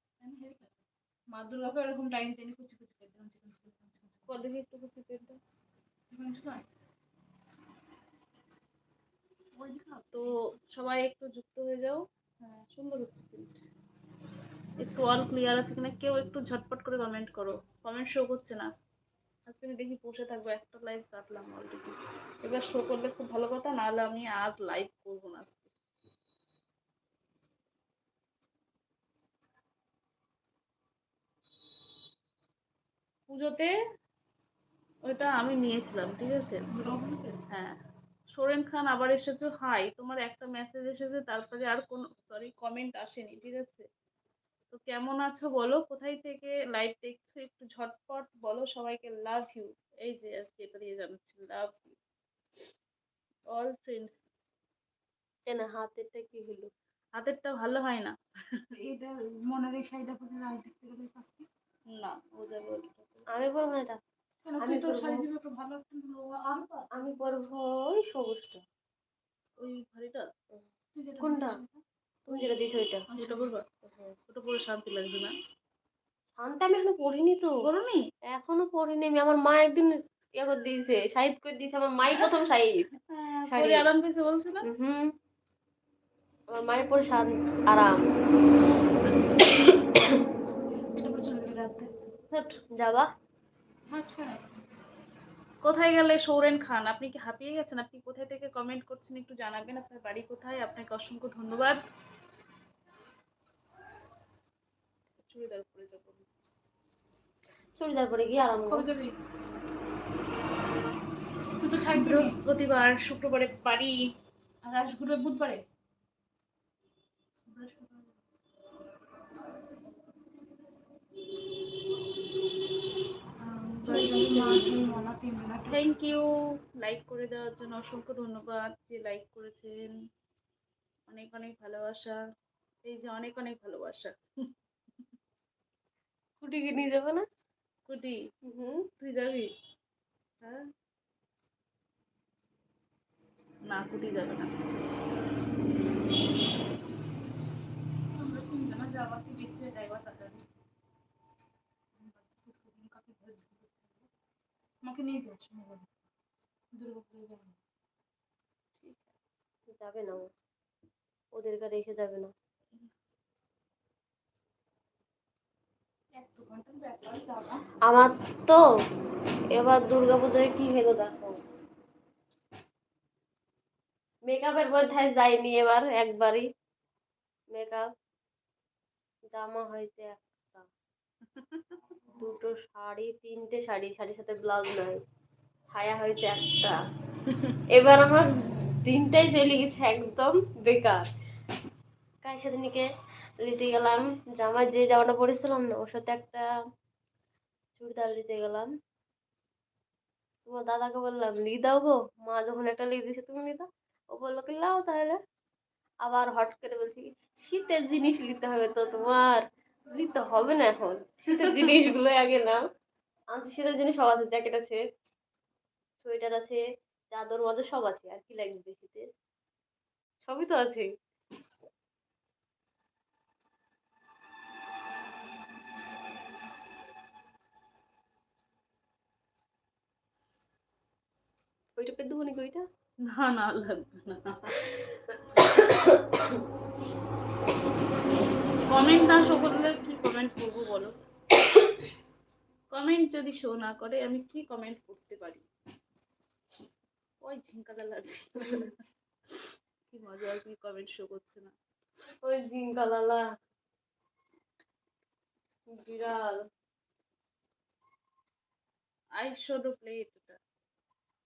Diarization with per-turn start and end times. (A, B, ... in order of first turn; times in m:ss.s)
0:00.2-0:04.3 A
0:04.3-0:05.4 B
0:06.1-0:06.6 A
0:09.5-0:10.6 A
0:10.1-0:13.6 B
0:14.8-0:18.7 B
0:19.5-0:25.7 B
0:33.3-0:33.7 B
0:35.1-0:36.6 B
0:36.7-0:37.4 A
0:37.5-0:37.8 B
0:38.4-0:43.9 B
0:44.7-0:52.0 B
0:53.5-0:54.2 B
0:55.5-0:56.7 C
0:57.2-0:58.6 B
0:58.7-1:01.5 A
1:01.9-1:03.2 B
1:03.3-1:04.0 C
1:04.4-1:06.9 A
1:04.6-1:05.2 C
1:06.9-1:08.6 C
1:09.6-1:10.3 B
1:11.0-1:12.6 A
1:11.2-1:11.6 C
1:12.3-1:13.1 C
1:13.1-1:13.5 A
1:13.2-1:13.6 B
1:13.8-1:14.1 C
1:14.3-1:15.3 B
1:16.4-1:17.6 C
1:17.6-1:18.0 B
1:18.3-1:22.9 C
1:23.0-1:24.7 B
1:23.5-1:23.9 C
1:24.6-1:25.1 C
1:26.5-1:28.0 C
1:31.0-1:31.9 A
1:32.3-1:32.6 B
1:32.8-1:33.1 C
1:33.9-1:34.4 A
1:35.6-1:41.8 B
1:45.2-1:46.3 B
1:47.8-1:48.9 C
1:48.7-1:49.2 A
1:51.6-1:52.4 A
1:52.0-1:54.1 B
1:54.6-1:55.6 A
1:57.5-1:58.2 A
2:03.6-2:05.0 B
2:03.8-2:05.8 A
2:05.7-2:09.8 B
2:11.1-2:12.2 B
2:12.8-2:14.1 B
2:16.4-2:17.2 C
2:17.9-2:18.2 B
2:18.5-2:18.9 C
2:19.0-2:19.5 B
2:23.7-2:24.5 B
2:28.2-2:30.4 A
2:32.0-2:34.1 A
2:34.8-2:35.9 A
2:36.7-2:37.6 A
2:38.8-2:39.1 B
2:39.7-2:40.3 C
2:41.4-2:42.3 C
2:46.2-2:47.6 A
2:47.8-2:48.6 C
2:49.5-2:51.4 C
2:54.3-2:56.5 C
2:57.5-2:57.9 C
2:59.3-3:00.7 C
3:01.4-3:01.9 B
3:02.2-3:05.0 C
3:05.7-3:06.8 C
3:07.7-3:11.1 C
3:12.2-3:12.9 C
3:13.4-3:16.5 C
3:17.8-3:18.7 C
3:20.5-3:25.2 C
3:26.0-3:32.6 C
3:33.3-3:34.8 C
3:36.0-3:36.6 C
3:37.1-3:39.1 C
3:40.2-3:40.9 C
3:51.8-3:52.6 C
3:53.1-3:54.8 B
3:55.6-3:56.2 C
3:58.7-4:00.9 B
4:02.7-4:05.4 B
4:07.2-4:08.7 B
4:09.4-4:11.5 B
4:12.2-4:13.2 C
4:15.7-4:16.5 C
4:19.2-4:20.4 B